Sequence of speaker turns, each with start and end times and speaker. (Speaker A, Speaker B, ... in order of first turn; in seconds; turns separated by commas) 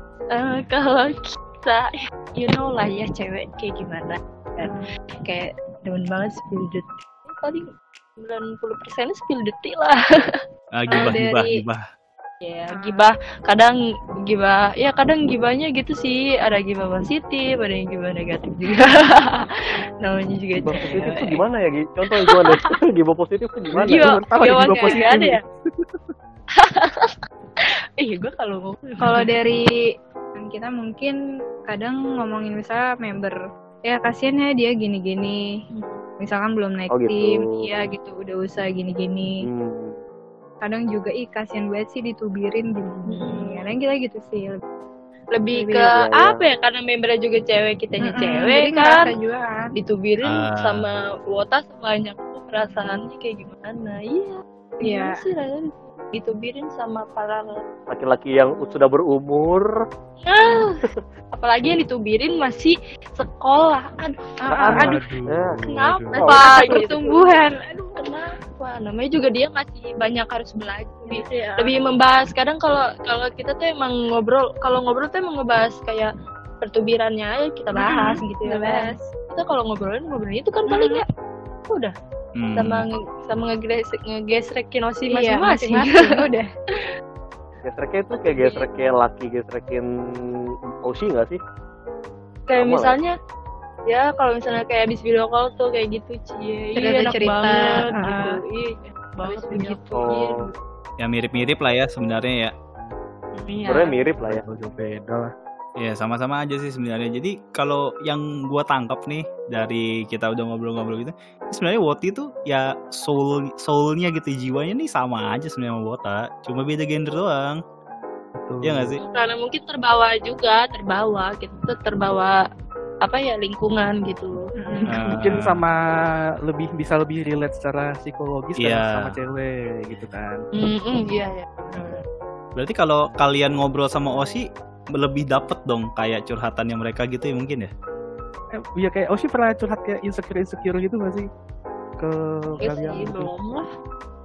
Speaker A: 0.3-7.7, Speaker B: 4.6-4.9, Speaker A: 8.2-10.4, Speaker C: 10.7-11.8, Speaker B: 10.9-11.6, Speaker A: 10.9-11.2, Speaker A: 12.4-19.5, Speaker B: 12.7-13.1, Speaker A: 20.0-21.4, Speaker D: 20.6-24.1, Speaker E: 23.8-25.9, Speaker A: 23.8-25.4, Speaker B: 24.5-25.0, Speaker A: 26.6-27.2, Speaker A: 28.0-29.3, Speaker B: 29.0-29.7, Speaker B: 30.4-31.2, Speaker B: 31.7-35.5, Speaker A: 35.7-36.0, Speaker B: 36.2-39.5, Speaker D: 36.9-37.5, Speaker D: 39.4-40.0, Speaker B: 40.6-44.6, Speaker A: 43.1-43.7, Speaker A: 45.3-49.1, Speaker B: 45.5-45.9, Speaker D: 45.9-46.4, Speaker B: 48.0-49.7, Speaker A: 49.8-57.5, Speaker C: 50.2-50.9, Speaker B: 52.6-53.0, Speaker B: 54.8-55.2, Speaker D: 57.9-59.7, Speaker A: 60.2-60.8, Speaker A: 61.3-65.0, Speaker B: 64.5-65.0, Speaker E: 64.6-66.2, Speaker D: 65.3-65.6, Speaker A: 65.7-76.1, Speaker D: 66.2-66.9, Speaker B: 66.2-67.9, Speaker B: 71.1-71.7, Speaker A: 76.6-81.0, Speaker B: 77.8-79.1, Speaker B: 80.7-81.0, Speaker A: 81.7-82.0, Speaker C: 82.4-82.8, Speaker A: 82.6-86.2, Speaker B: 85.1-86.5, Speaker D: 87.6-89.9, Speaker A: 88.2-88.7, Speaker D: 90.8-91.4, Speaker A: 92.5-93.2, Speaker D: 92.6-92.9, Speaker A: 93.9-100.5, Speaker B: 96.8-98.4, Speaker B: 99.2-99.9, Speaker D: 99.9-100.4, Speaker C: 101.0-102.5, Speaker A: 103.4-103.9, Speaker D: 103.7-104.4, Speaker E: 104.2-105.3, Speaker C: 105.8-117.6, Speaker E: 118.4-119.0, Speaker C: 118.6-119.0, Speaker A: 119.0-122.4, Speaker A: 123.0-125.0, Speaker B: 124.6-124.9, Speaker C: 124.9-125.6, Speaker E: 125.2-125.8, Speaker E: 126.5-130.4, Speaker C: 128.6-129.2, Speaker A: 130.6-132.0, Speaker C: 132.6-137.7, Speaker E: 138.6-141.3, Speaker E: 142.0-143.3, Speaker A: 142.6-143.7